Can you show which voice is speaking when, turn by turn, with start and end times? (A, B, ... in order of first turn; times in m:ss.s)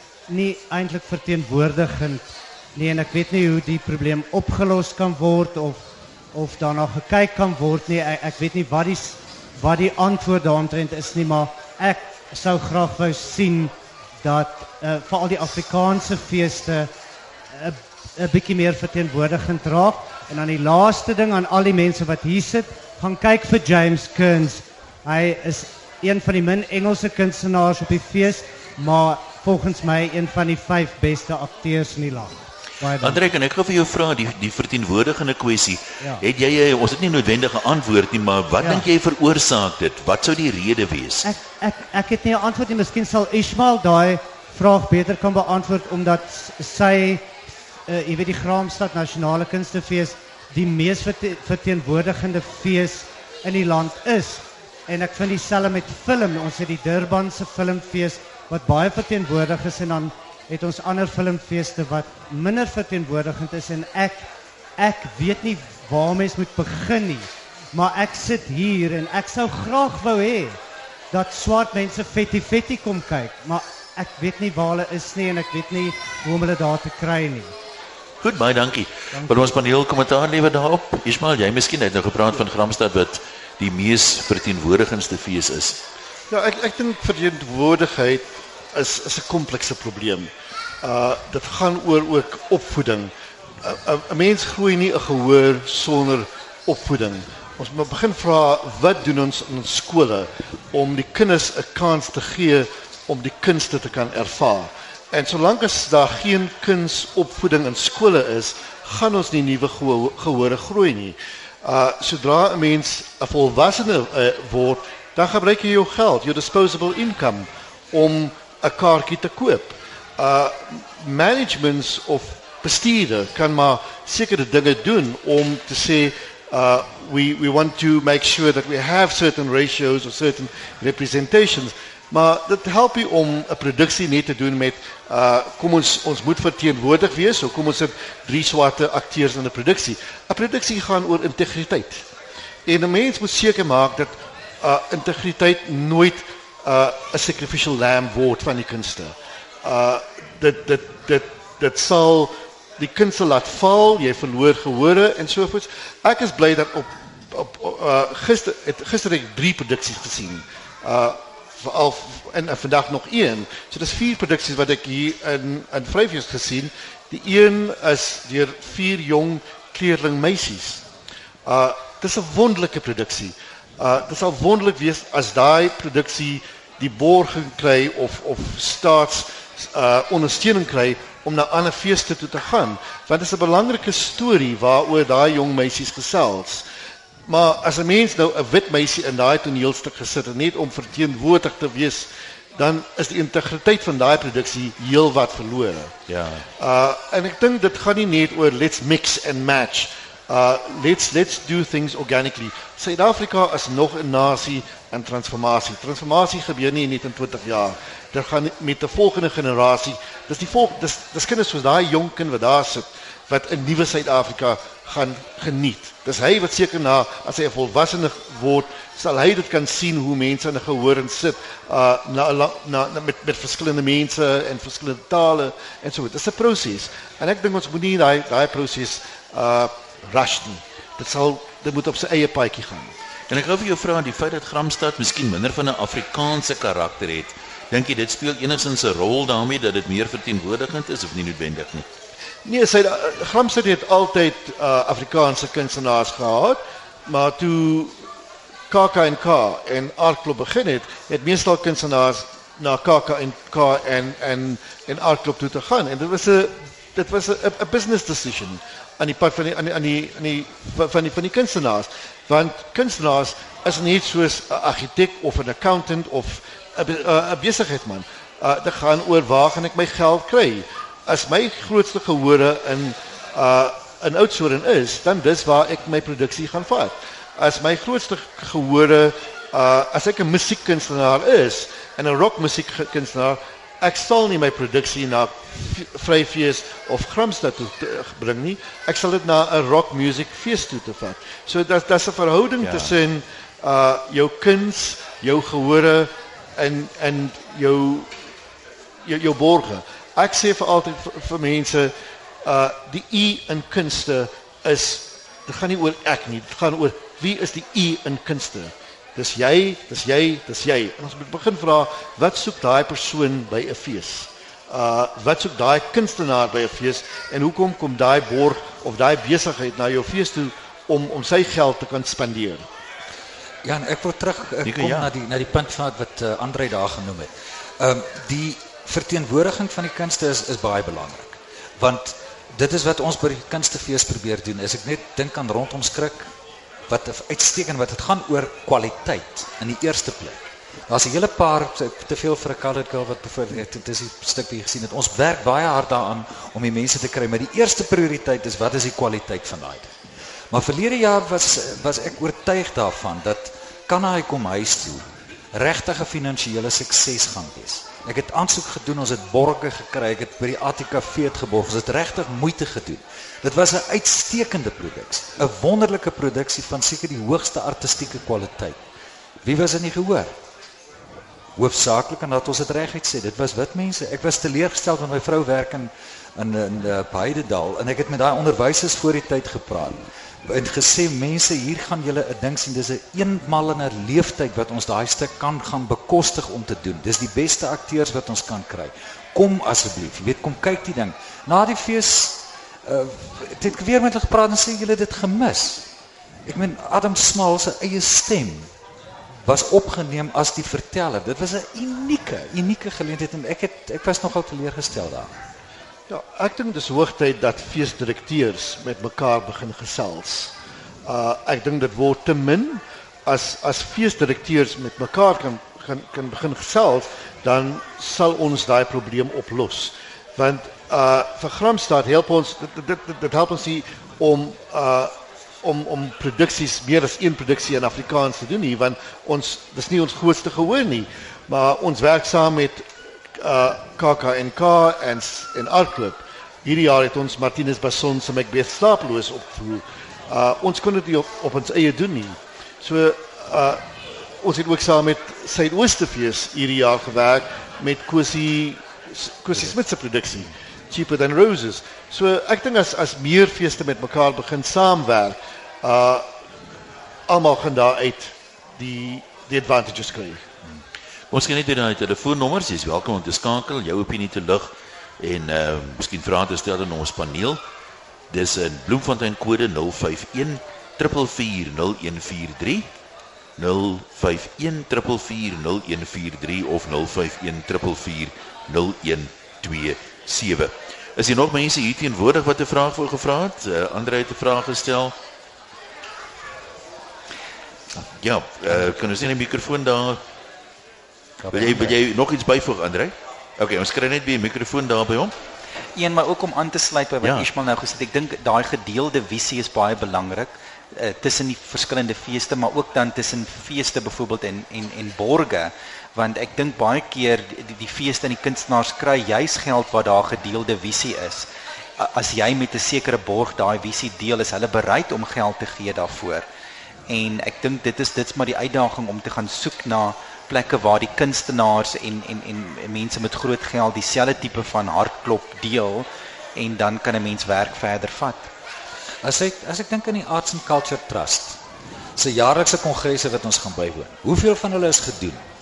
0:00.3-0:16.9 A
0:17.5-0:33.2 A
0:33.0-0:41.3 B
0:38.6-0:38.8 A
0:41.2-1:10.6 A
1:11.1-1:17.5 A
1:18.2-1:25.8 B
1:19.1-1:19.5 A
1:26.3-1:30.3 C
1:30.8-2:22.1 C
2:22.6-2:50.8 C
2:51.4-3:06.6 C
3:07.3-3:15.9 C
3:16.1-3:16.5 B
3:16.6-3:52.9 C
3:53.3-4:01.8 B
4:02.4-4:07.9 C
4:08.7-4:58.1 C
4:52.6-4:52.9 B
4:59.0-5:22.6 C
5:23.6-5:36.3 D
5:24.6-5:25.1 B
5:36.9-5:49.9 D
5:50.5-6:08.8 D
6:09.4-6:10.3 D
6:11.6-6:35.9 D
6:36.4-6:38.7 D
6:39.4-6:45.3 D
6:46.1-6:50.5 C
6:51.0-7:12.8 C
7:13.4-7:36.3 C
7:37.3-7:40.4 C
7:41.3-7:47.6 B
7:48.3-7:52.9 B
7:53.6-8:05.1 B
8:08.1-8:10.2 B
8:11.5-8:15.3 B
8:16.0-8:31.5 E
8:17.2-8:17.5 B
8:32.0-8:36.4 E
8:37.1-8:48.5 E
8:49.2-8:51.6 D
8:52.2-8:55.4 D